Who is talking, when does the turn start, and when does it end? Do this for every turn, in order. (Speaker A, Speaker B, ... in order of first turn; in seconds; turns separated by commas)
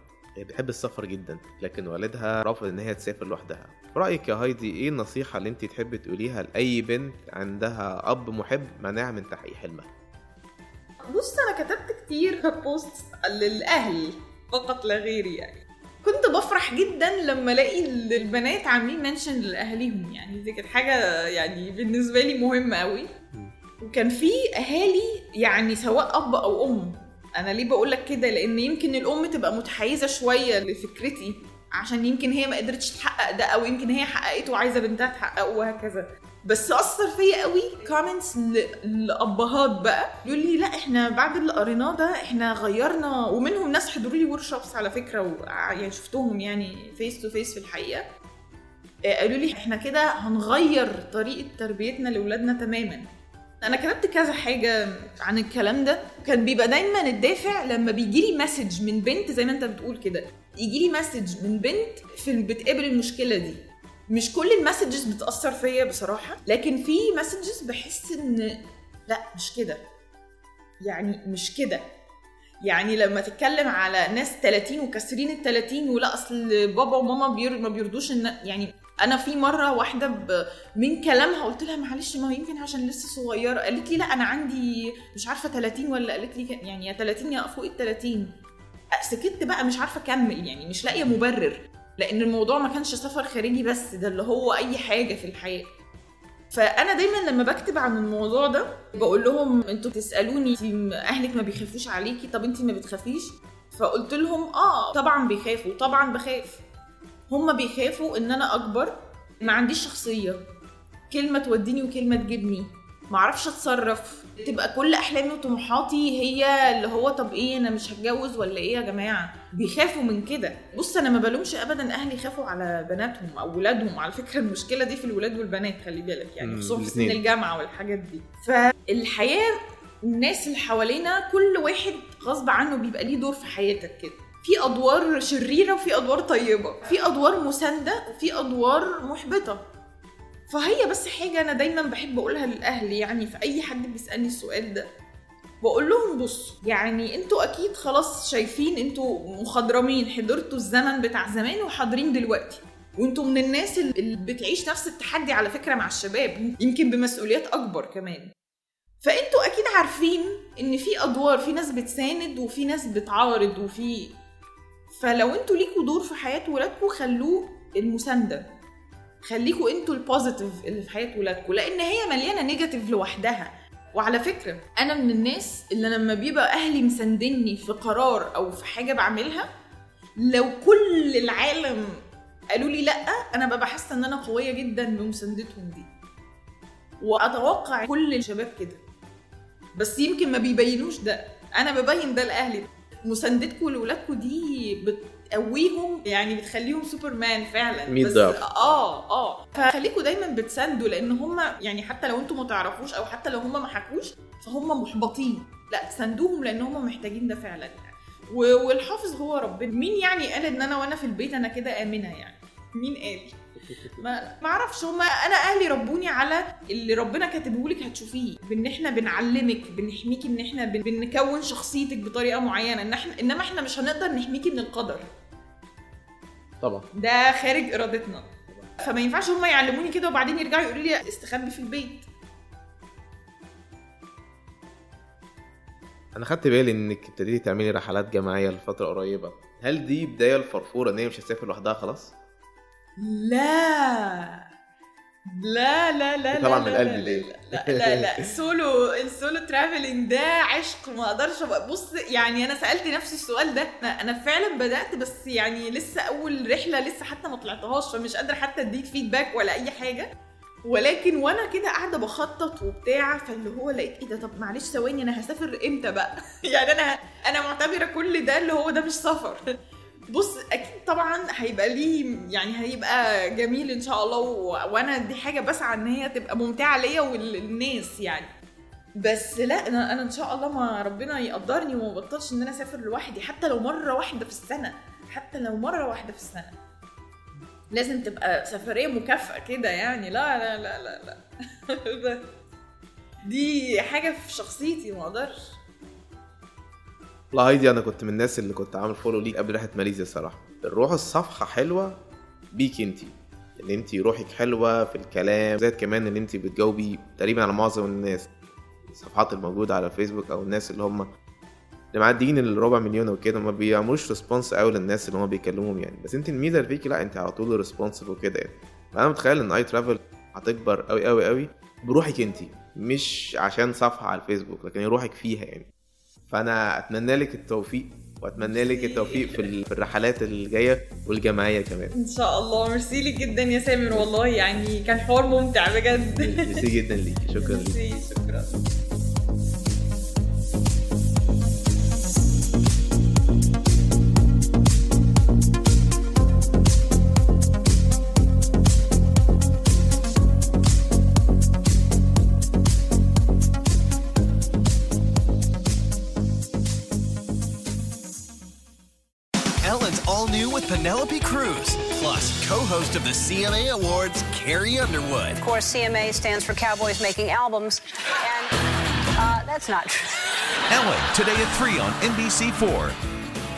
Speaker A: 0.4-9.9, Speaker B: 11.1-23.1, Speaker B: 23.8-48.0, Speaker B: 49.0-53.0, Speaker B: 53.6-69.8, Speaker B: 70.8-71.8, Speaker B: 72.7-88.3, Speaker B: 88.9-95.7, Speaker B: 96.5-106.6, Speaker B: 107.3-110.4, Speaker B: 111.1-139.6, Speaker A: 126.4-127.2, Speaker B: 140.5-144.9, Speaker B: 145.6-158.3, Speaker B: 159.0-164.1, Speaker B: 164.9-168.5, Speaker B: 169.2-179.5, Speaker B: 180.2-182.0, Speaker B: 182.5-185.9, Speaker B: 187.0-188.8, Speaker B: 189.8-225.1, Speaker A: 197.9-198.5, Speaker A: 213.8-214.0, Speaker A: 226.6-226.9, Speaker B: 226.9-232.0, Speaker A: 236.1-242.1, Speaker B: 243.0-244.4, Speaker B: 245.3-260.1, Speaker A: 246.3-248.3, Speaker B: 260.6-269.5, Speaker B: 270.1-278.3, Speaker B: 279.0-286.6, Speaker B: 287.7-292.3, Speaker B: 293.3-295.4, Speaker A: 297.3-302.0, Speaker A: 302.5-308.3, Speaker A: 308.9-311.1, Speaker A: 311.9-325.7, Speaker A: 326.3-331.9, Speaker B: 328.4-329.5, Speaker B: 331.9-336.7, Speaker A: 336.1-337.8, Speaker B: 337.4-338.6, Speaker C: 359.6-365.4, Speaker D: 365.4-368.5, Speaker D: 369.2-370.3, Speaker E: 370.7-372.9